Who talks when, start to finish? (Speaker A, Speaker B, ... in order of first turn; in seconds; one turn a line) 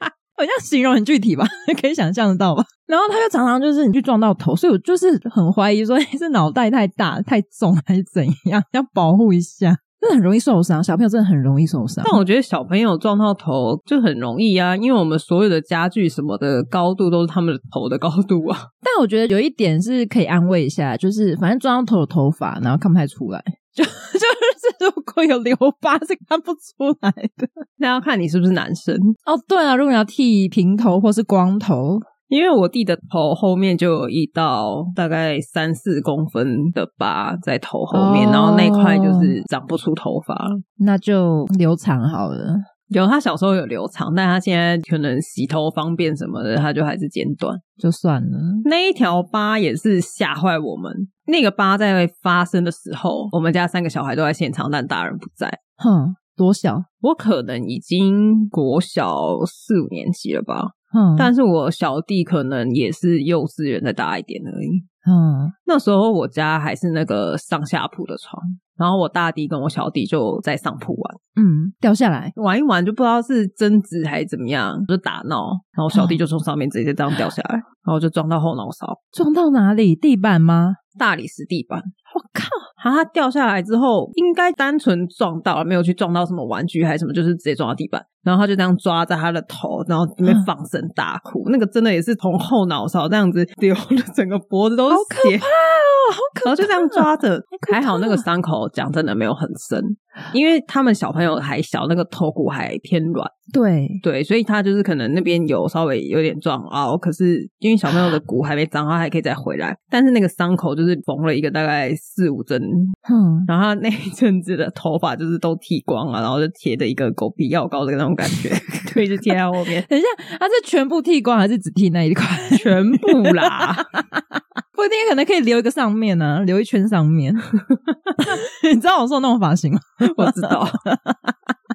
Speaker A: 0.4-12.2
Speaker B: 12.0-18.7
Speaker A: 18.8-27.5
Speaker B: 27.8-29.2
Speaker A: 29.3-32.1
Speaker B: 32.3-40.6
Speaker A: 37.9-39.4
Speaker A: 40.8-42.7
Speaker B: 42.9-47.6
Speaker A: 47.8-48.7
Speaker B: 48.6-55.6
Speaker A: 55.8-56.9
Speaker B: 57.0-64.8
Speaker A: 60.9-61.3
Speaker A: 65.0-65.5
Speaker B: 65.7-71.2
Speaker A: 71.4-72.3
Speaker B: 72.3-79.0
Speaker A: 75.9-76.2
Speaker A: 79.1-80.8
Speaker B: 81.0-81.9
Speaker A: 82.1-82.7
Speaker B: 82.8-95.5
Speaker A: 94.9-97.1
Speaker B: 96.5-103.3
Speaker A: 97.6-98.2
Speaker A: 103.5-104.0
Speaker B: 104.0-113.0
Speaker A: 113.0-113.5
Speaker B: 113.5-119.9
Speaker A: 119.8-127.5
Speaker B: 122.5-123.9
Speaker A: 128.2-131.3
Speaker B: 130.0-130.8